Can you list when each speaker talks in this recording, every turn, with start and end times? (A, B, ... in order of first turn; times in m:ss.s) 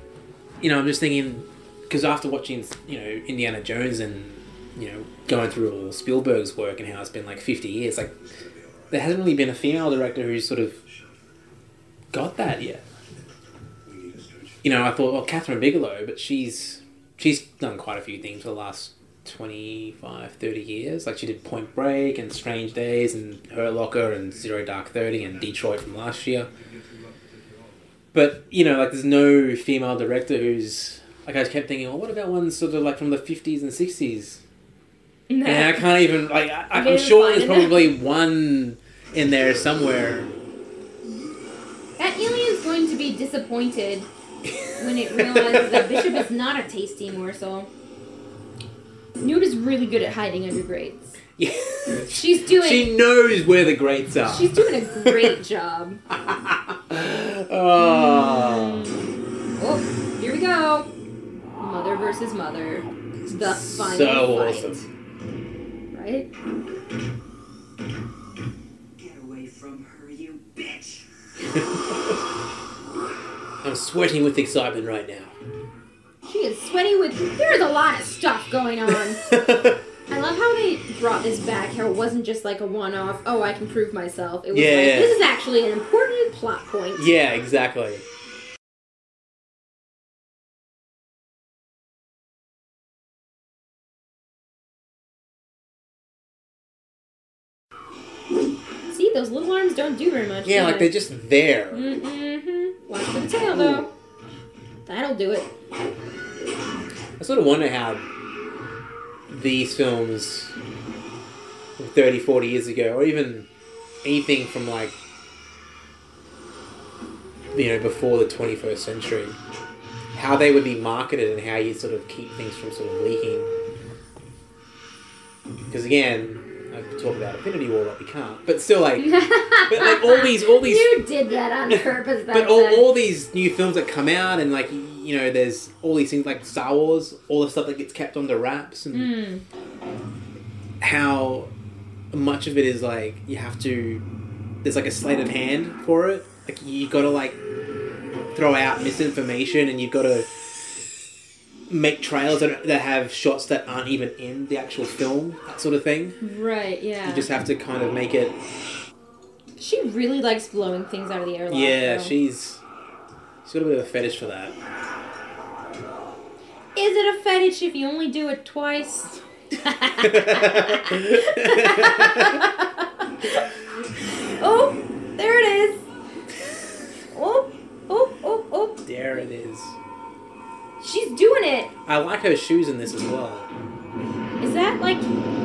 0:00.6-0:08.2 A
0:08.9-0:10.8 A
0:12.1-0:12.8 A
0:13.9-0:14.6 B
0:14.6-0:26.5 A
0:26.6-0:27.8 B
0:28.1-0:34.4 A
0:35.3-0:35.9 C
0:35.4-0:40.3 A
0:36.7-0:37.9 C
0:42.0-0:44.1 C
0:44.4-0:46.2 A
0:44.8-0:47.7 C
0:49.2-0:51.2 C
0:51.4-0:55.4 A
0:52.0-0:53.0 C
0:54.2-0:56.0 C
0:56.1-0:58.9 A
0:57.8-0:59.0 C
0:59.6-1:00.9 C
1:01.6-1:04.8 C
1:03.2-1:04.8 A
1:05.9-1:06.3 C
1:09.0-1:11.0 D
1:13.6-1:15.3 A
1:16.2-1:19.2 C
1:18.9-1:19.8 A
1:20.1-1:27.1 C
1:24.5-1:25.2 A
1:26.9-1:28.0 A
1:38.9-1:40.9 C
1:40.4-1:41.8 A
1:41.7-1:43.9 C
1:43.5-1:43.9 A
1:44.8-1:45.5 C
1:47.2-1:48.0 A
1:49.3-1:50.5 A
1:51.8-1:53.5 A
1:54.0-1:55.0 A
1:57.5-1:59.4 A
2:00.1-2:03.5 A
2:05.7-2:11.0 A
2:09.0-2:12.9 C
2:11.7-2:19.1 A
2:18.9-2:19.4 C
2:20.8-2:21.5 A
2:22.1-2:24.0 A
2:24.6-2:27.4 A
2:28.3-2:30.3 A
2:31.7-2:36.2 A
2:36.2-2:37.3 C
2:37.0-2:38.4 A
2:39.6-2:42.1 C
2:41.5-2:42.6 A
2:43.4-2:44.6 A
2:46.7-2:53.4 C
2:50.0-2:52.4 A
2:54.4-2:55.8 C
2:57.1-2:58.8 C
2:58.8-2:59.8 A
3:00.8-3:01.7 C
3:01.8-3:03.5 A
3:04.4-3:05.1 C